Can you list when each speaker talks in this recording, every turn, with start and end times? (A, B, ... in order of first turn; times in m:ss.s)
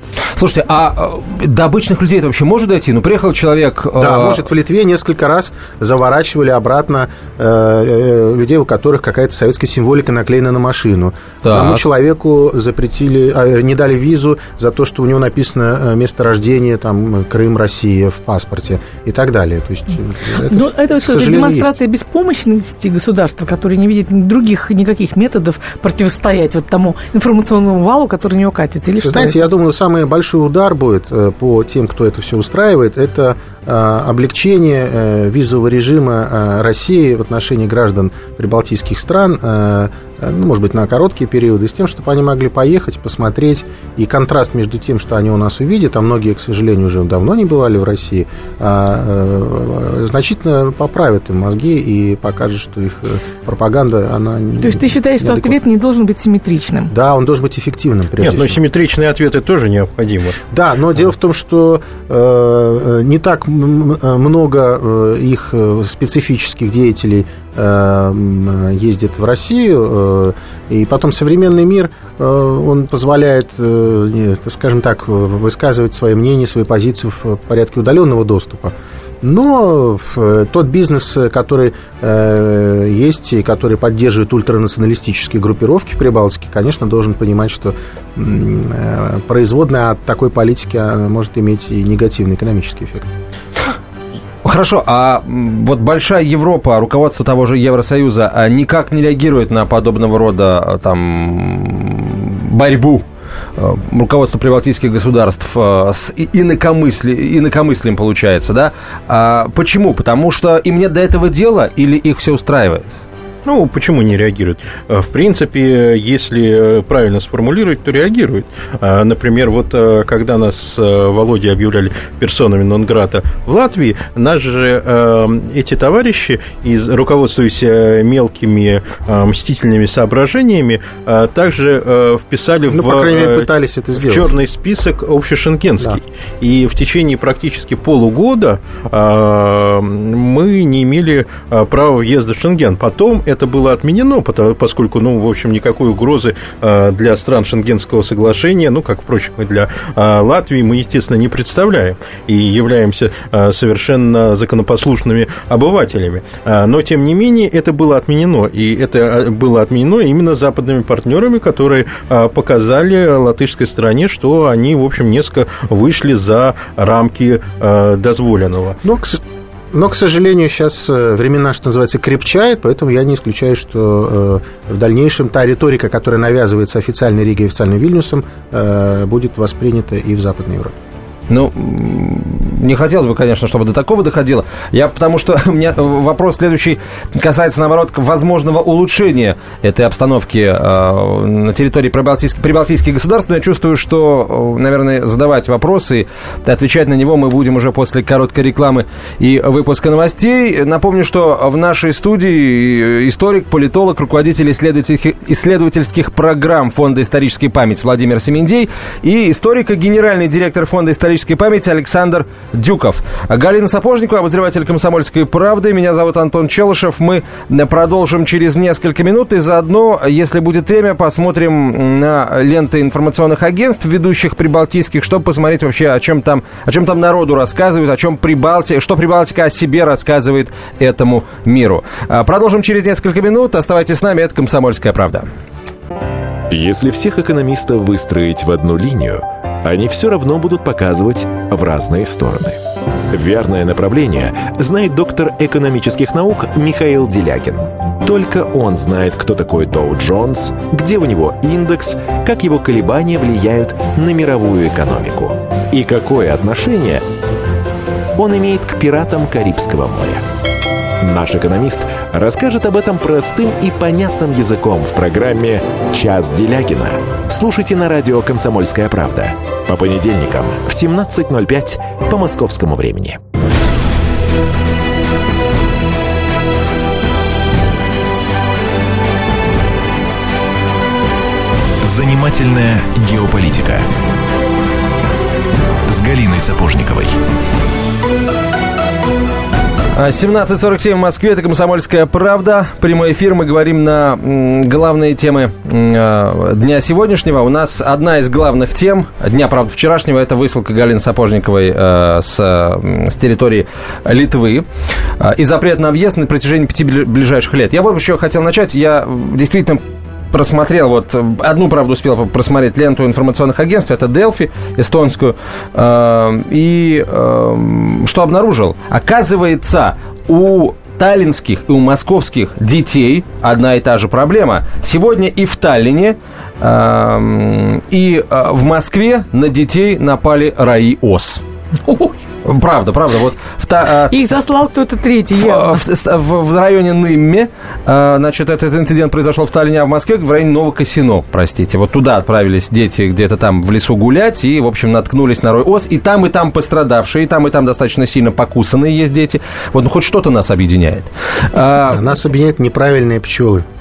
0:00.4-0:04.4 A
0:04.0-0:21.7 B
0:11.4-0:11.8 A
0:20.5-0:29.4 C
0:29.0-0:55.6 B
0:54.6-0:56.9 C
0:56.9-0:58.6 B
0:58.2-1:00.4 D
1:00.5-1:33.1 B
1:34.4-1:43.0 A
1:43.6-1:52.9 A
1:53.4-2:48.8 D
2:12.7-2:14.3 B
2:48.8-3:00.8 B
3:01.3-3:55.3 A
3:56.5-4:02.6 E
4:03.1-4:17.0 E
4:18.2-4:20.2 E
4:21.0-4:33.2 E
4:41.8-4:43.9 E
4:45.9-4:47.2 E
4:50.0-5:04.7 A
5:05.2-5:31.4 A
5:31.9-5:32.2 C
5:32.4-5:34.1 A
5:34.1-5:35.8 C
5:35.4-5:52.0 A
5:51.9-5:53.6 B